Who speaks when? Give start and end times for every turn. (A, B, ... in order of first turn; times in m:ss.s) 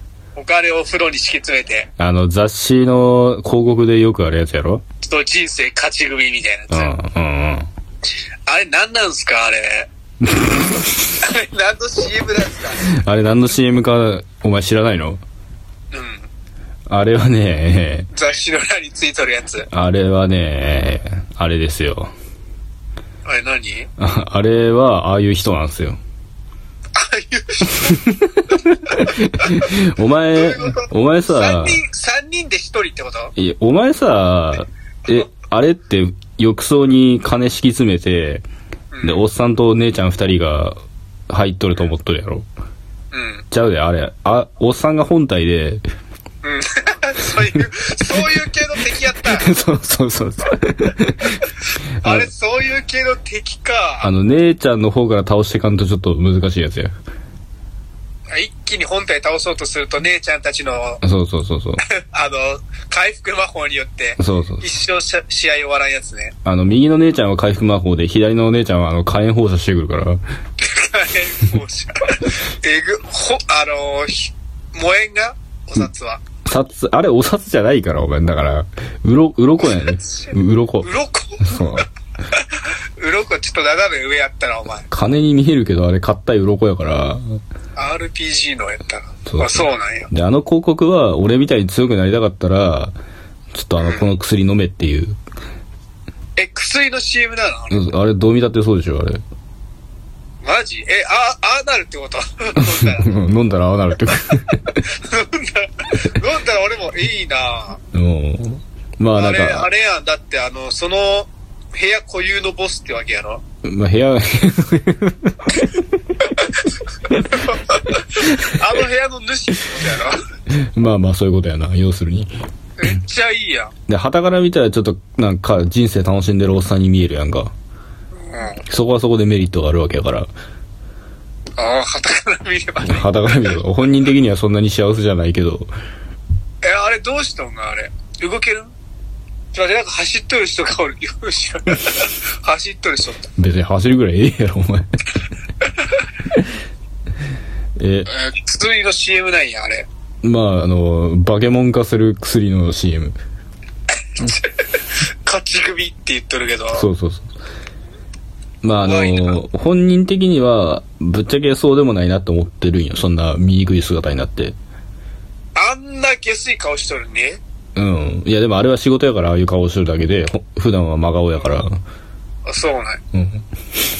0:00.4-0:01.9 A
0:02.0-0:04.8 B
0:05.0-0:06.9 A
0:06.7-0:07.7 B
0:08.4-0:09.9 A
0:10.3-0:10.9 B
0:11.2-0:12.9 A
0:12.9-0:15.2 B
0:15.9-0:16.3 A
0:16.9-0:18.1 B
0:18.1-0:19.7 A
0:19.7-0:22.1 B
0:23.2-0:23.9 A
0:24.0-0:26.0 B
0:26.9-0:29.8 A
0:27.8-0:31.8 B
0:30.3-0:33.3 A
0:33.4-0:38.4 B
0:38.9-0:39.2 A
0:39.0-0:42.5 B
0:43.1-0:43.4 A
0:43.5-0:45.8 B
0:46.4-0:49.5 A
0:49.2-0:51.5 B
0:52.0-0:54.1 A
0:52.0-0:52.3 B
0:54.0-0:56.9 B
0:58.3-1:01.0 A
1:01.0-1:01.8 B
1:01.8-1:06.4 A
1:04.2-1:04.6 B
1:06.4-1:10.2 B
1:10.6-1:16.2 A
1:16.4-1:20.9 B
1:19.8-1:24.9 A
1:21.4-1:21.9 B
1:24.9-1:27.4 B
1:27.8-1:30.1 A
1:29.3-1:32.9 B
1:33.5-1:35.2 B
1:33.8-1:34.1 A
1:36.4-1:37.9 A
1:37.7-1:39.2 B
1:40.4-1:43.1 A
1:42.6-1:44.8 B
1:44.8-1:47.8 A
1:47.9-1:49.7 B
1:49.1-1:53.4 A
1:53.6-1:55.6 B
1:57.2-2:00.2 A
2:00.5-2:02.4 B
2:02.8-2:03.7 A
2:03.9-2:07.5 B
2:08.3-2:08.6 A
2:08.7-2:10.3 B
2:11.6-2:13.6 A
2:12.8-2:15.7 B
2:16.6-2:18.7 A
2:19.5-2:23.3 A
2:23.4-2:24.9 B
2:27.8-2:28.1 B
2:28.1-2:29.9 A
2:30.2-2:33.2 B
2:34.1-2:36.9 A
2:36.7-2:37.3 B
2:38.6-2:44.6 B
2:38.8-2:39.4 A
2:45.6-2:47.4 A
2:47.8-2:51.8 B
2:52.4-2:53.0 A
2:53.1-2:53.5 B